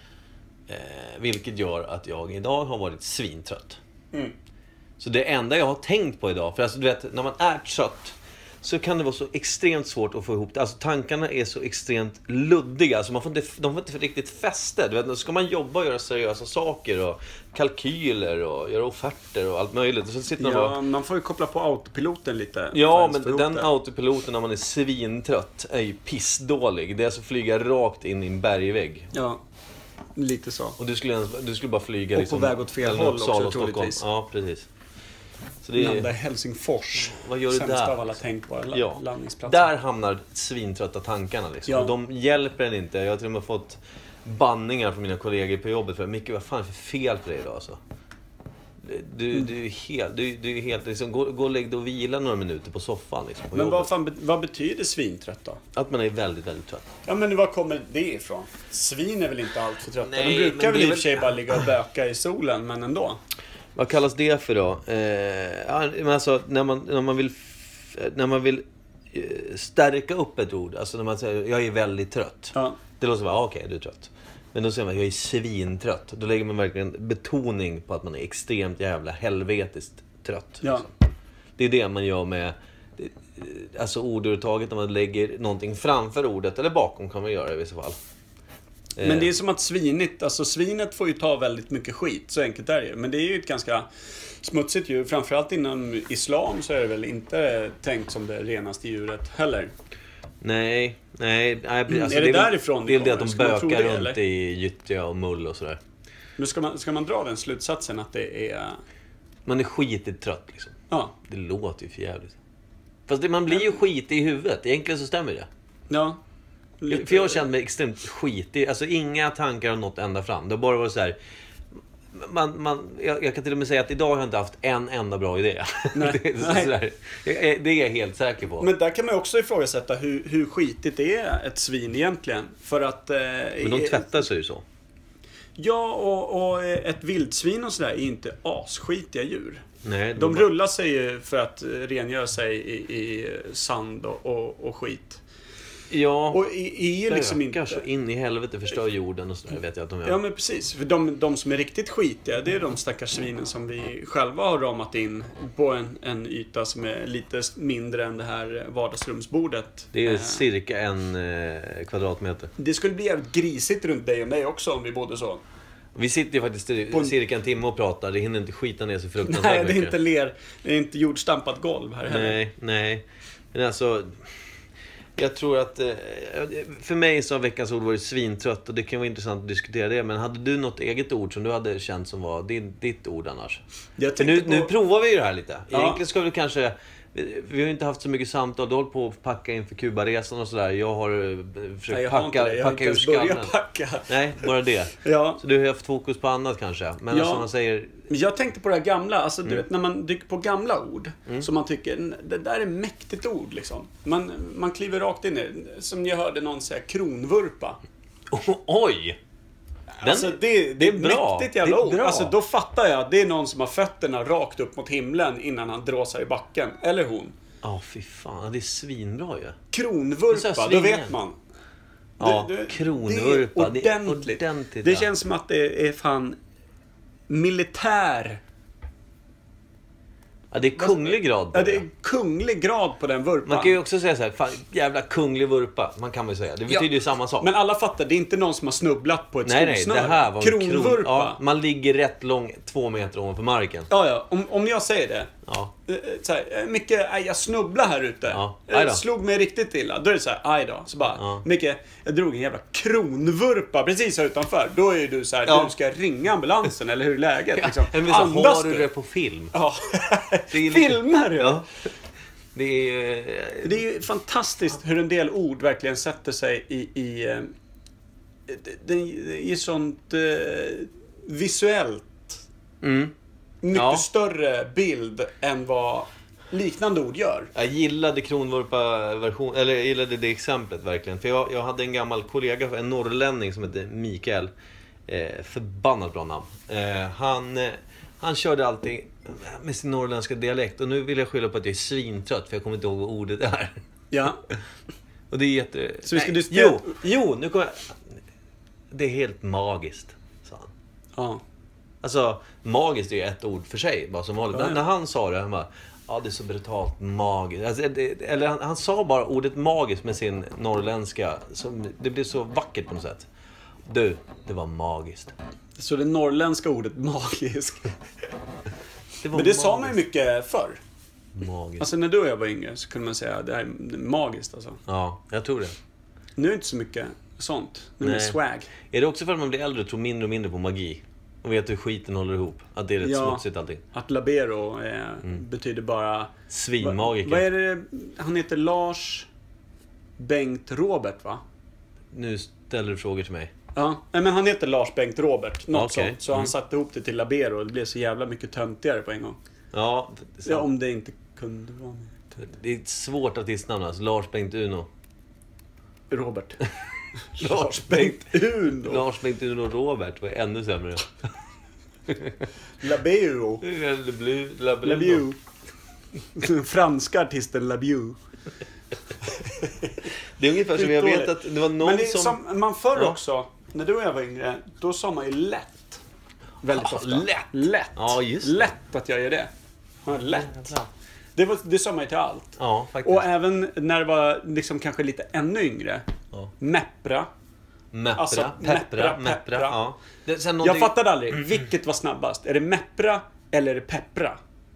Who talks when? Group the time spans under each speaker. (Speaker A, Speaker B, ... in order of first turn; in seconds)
Speaker A: 0.7-3.8, 5.0-20.8, 22.7-29.1, 30.8-34.7, 35.6-36.1, 37.1-38.1, 38.7-47.8, 48.8-53.9, 55.7-56.9, 60.0-61.3, 63.8-80.9, 81.6-88.0, 89.0-89.3, 100.4-105.8, 109.5-112.4, 113.1-115.5, 116.9-121.2, 122.1-128.7, 133.6-134.6, 139.8-140.5, 145.9-146.4, 147.1-150.2, 159.9-162.5, 165.9-169.9, 172.1-174.3, 175.2-183.6, 184.2-193.5, 194.1-198.0, 208.3-209.2, 210.0-212.3, 217.6-219.6, 220.3-221.2, 222.2-225.1, 230.5-231.8, 233.5-237.5, 239.4-243.9, 245.5-245.7, 248.3-249.0, 251.2-251.4, 255.5-255.7, 257.6-259.5, 260.5-261.7, 262.5-263.8, 272.8-273.1, 273.7-274.1, 277.5-284.5, 285.1-293.8, 295.3-298.2, 298.9-300.7, 302.0-313.3, 313.9-315.4, 319.2-320.0, 321.4-321.9, 324.9-325.8, 328.0-333.8, 336.5-337.4, 342.1-343.5, 345.7-346.5, 349.7-350.7, 352.4-354.9, 357.4-361.1, 362.1-362.4, 363.6-365.2, 370.4-372.4, 376.7-378.6, 380.2-380.9, 382.6-383.3, 387.9-390.9
Speaker B: 20.4-23.7, 29.1-29.4, 30.2-30.8, 32.1-34.0, 35.8-39.7, 41.7-41.9, 53.5-55.6, 57.1-63.2, 72.5-72.8, 80.6-80.9, 89.0-93.9, 94.4-99.7, 101.9-104.2, 106.4-108.8, 110.9-111.2, 115.9-116.2, 116.8-117.5, 125.9-126.7, 128.6-134.2, 135.6-145.2, 146.3-147.8, 150.1-160.4, 162.6-165.4, 169.2-172.4, 184.0-184.7, 185.7-186.0, 191.9-195.4, 197.1-197.5, 198.1-207.8, 210.0-217.3, 219.7-221.4, 222.2-226.4, 227.3-228.4, 230.8-233.8, 237.4-241.4, 243.9-245.3, 245.9-258.9, 259.5-261.6, 263.6-267.5, 268.5-272.4, 273.6-277.5, 294.1-294.4, 296.1-296.9, 301.2-301.4, 304.5-304.8, 315.8-317.9, 319.3-320.8, 321.8-324.8, 326.4-328.7, 333.0-339.3, 340.2-341.4, 343.8-349.4, 350.4-352.5, 356.1-356.7, 357.3-359.0, 362.8-363.6, 364.8-365.4, 366.4-368.2, 369.3-370.1, 370.7-376.0, 376.6-379.5, 380.1-380.7, 381.4-386.1, 386.6-387.3, 388.2-389.8, 390.6-394.4